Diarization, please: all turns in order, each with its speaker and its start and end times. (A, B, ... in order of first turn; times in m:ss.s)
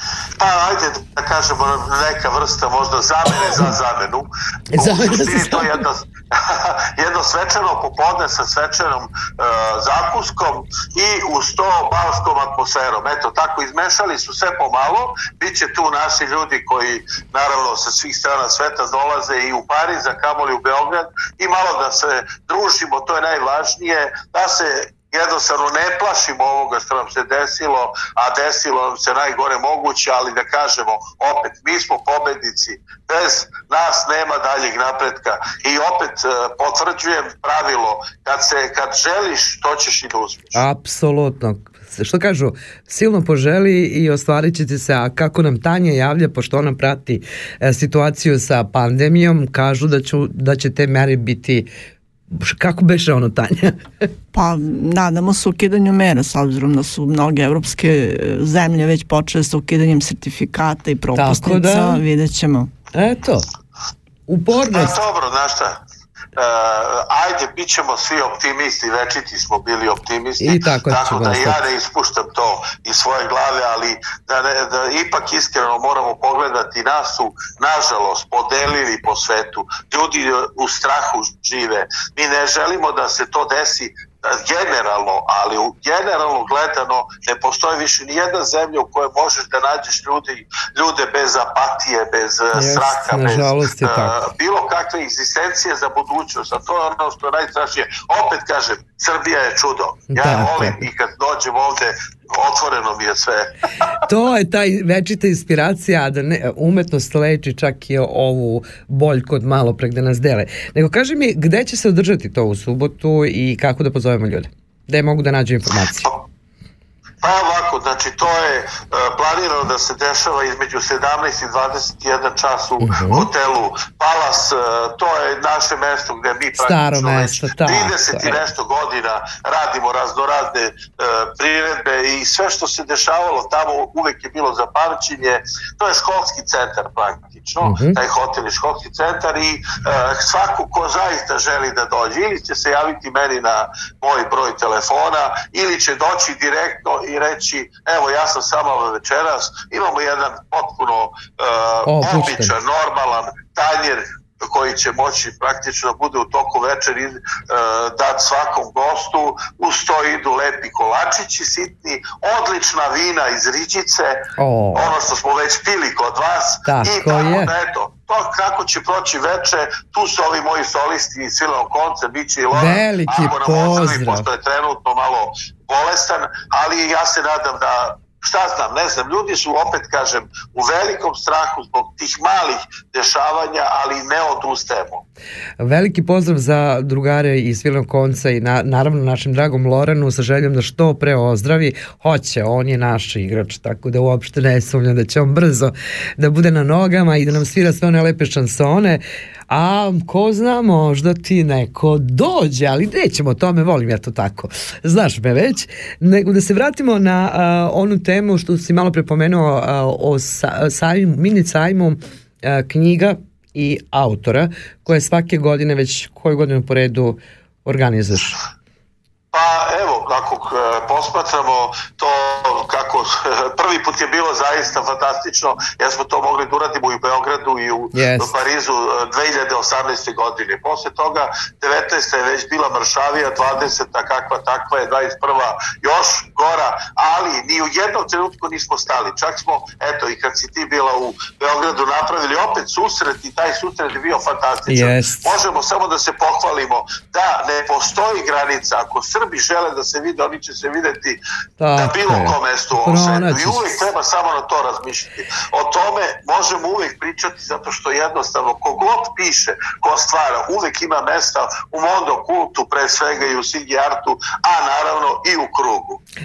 0:00.4-0:40.6 A
0:04.7-0:05.8 B
0:40.6-0:51.7 B
0:52.3-0:54.1 B
0:54.3-1:02.7 C
1:01.1-1:02.0 B
1:02.9-1:03.5 B
1:04.3-1:05.0 B
1:04.7-1:05.7 A
1:06.4-1:43.5 A
1:10.4-1:11.7 B
1:32.5-1:34.2 B
1:40.1-1:40.9 B
1:44.0-1:56.1 B
1:57.2-2:44.2 A
2:02.8-2:03.3 B
2:06.6-2:08.4 B
2:17.6-2:18.0 B
2:31.9-2:32.5 B
2:44.4-2:45.0 B
2:44.8-3:05.0 A
2:46.7-2:47.5 B
2:52.5-2:54.3 B
3:05.6-3:38.4 B
3:39.3-4:11.2 A
3:47.9-3:48.4 B
4:04.7-4:05.4 B
4:11.6-4:13.8 B
4:11.8-4:26.0 A